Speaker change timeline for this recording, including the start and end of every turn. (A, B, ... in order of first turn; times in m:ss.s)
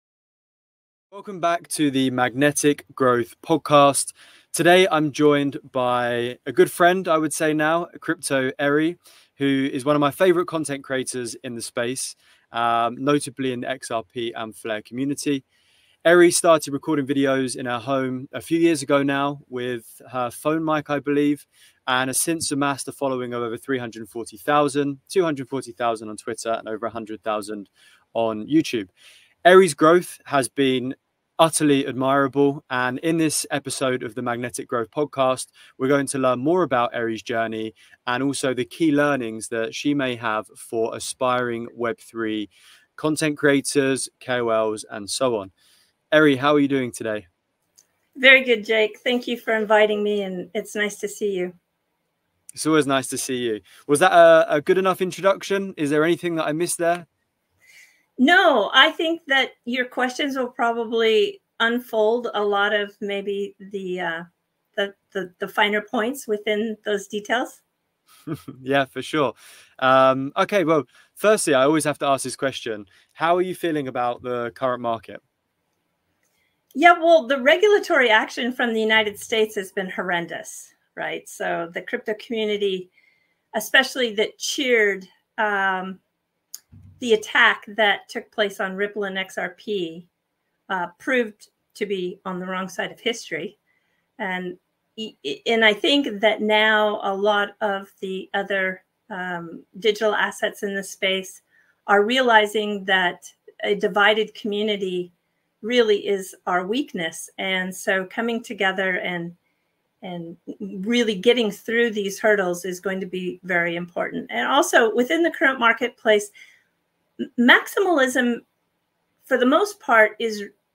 0:01.1-0:15.4 A
0:16.0-0:28.9 A
0:29.4-0:45.5 A
0:46.1-0:47.2 A
0:48.2-0:51.5 B
0:52.5-0:57.1 A
0:58.2-1:04.2 B
1:04.8-1:07.6 B
1:08.3-1:15.2 A
1:16.7-1:22.9 B
1:23.5-1:26.0 B
1:27.0-1:30.1 B
1:30.7-1:33.6 B
1:34.2-1:49.4 B
1:50.0-1:56.3 B
1:57.2-1:58.4 B
1:59.2-2:00.5 B